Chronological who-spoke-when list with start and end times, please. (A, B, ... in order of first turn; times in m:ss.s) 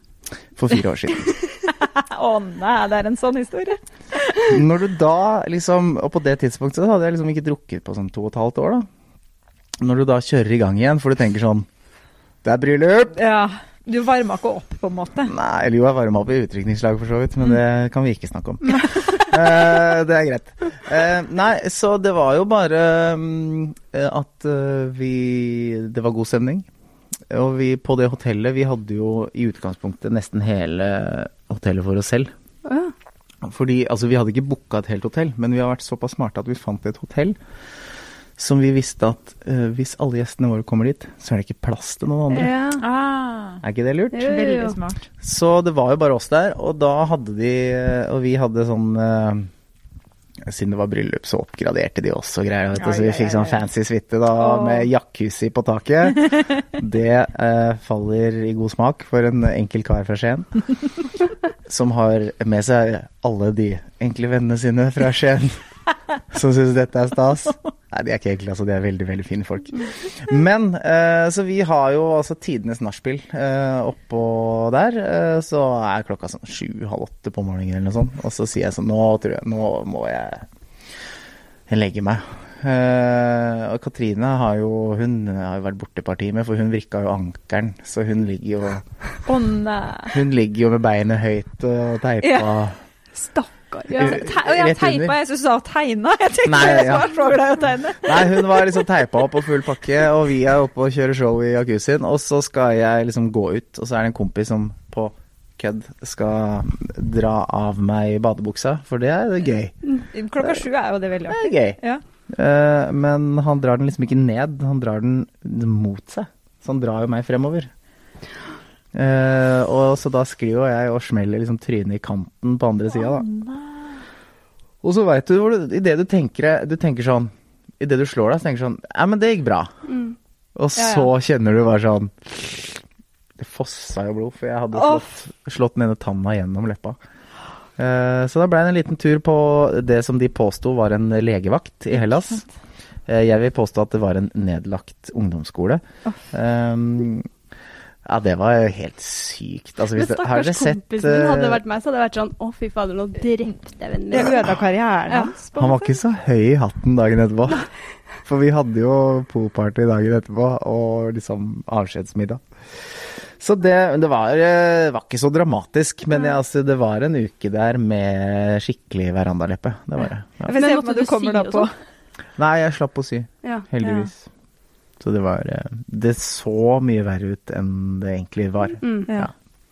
0:00.6-0:01.4 A
0:01.4-0:04.4 B
0:04.4-0:08.9 A
0:09.8-0:11.7 A
0:12.4-0:13.2 A
0:13.1-0:15.3 B
0:15.3-0:26.7 A
0:18.7-0:19.3 B
0:27.3-0:32.3 A
0:32.6-0:32.9 C
0:33.4-0:37.4 A
0:38.4-0:42.5 A
0:42.3-0:42.8 C
0:42.8-0:43.6 B
0:43.6-0:44.3 A
0:44.1-0:44.8 C
0:44.2-0:45.0 B
0:45.2-0:49.5 A
0:50.4-1:00.6 A
0:52.8-0:53.6 B
0:54.3-0:54.9 B
1:01.7-1:05.6 A
1:06.3-1:20.5 A
1:21.7-1:28.8 A
1:29.2-1:30.2 B
1:30.1-1:32.8 A
1:32.2-1:32.5 B
1:33.1-1:34.2 C
1:33.9-1:35.1 A
1:33.9-1:38.8 B
1:36.5-1:37.1 A
1:38.0-1:49.7 A
1:50.1-1:52.0 B
1:51.3-1:51.8 A
1:52.3-1:57.7 A
1:58.9-2:03.3 A
2:03.1-2:04.0 B
2:04.8-2:09.7 A
2:09.9-2:10.2 C
2:10.6-2:12.8 A
2:10.8-2:11.1 B
2:13.4-2:17.0 A
2:14.7-2:15.2 B
2:17.8-2:22.4 A
2:23.1-2:27.3 A
2:28.0-2:31.6 A
2:29.9-2:34.5 C
2:34.1-2:36.0 B
2:35.1-2:35.4 C
2:35.6-2:37.7 A
2:38.2-2:50.5 A
2:50.5-2:51.7 B
2:50.5-2:51.7 C
2:52.4-2:54.3 A
2:53.8-2:54.1 B
2:55.0-2:59.3 A
2:58.8-2:59.1 C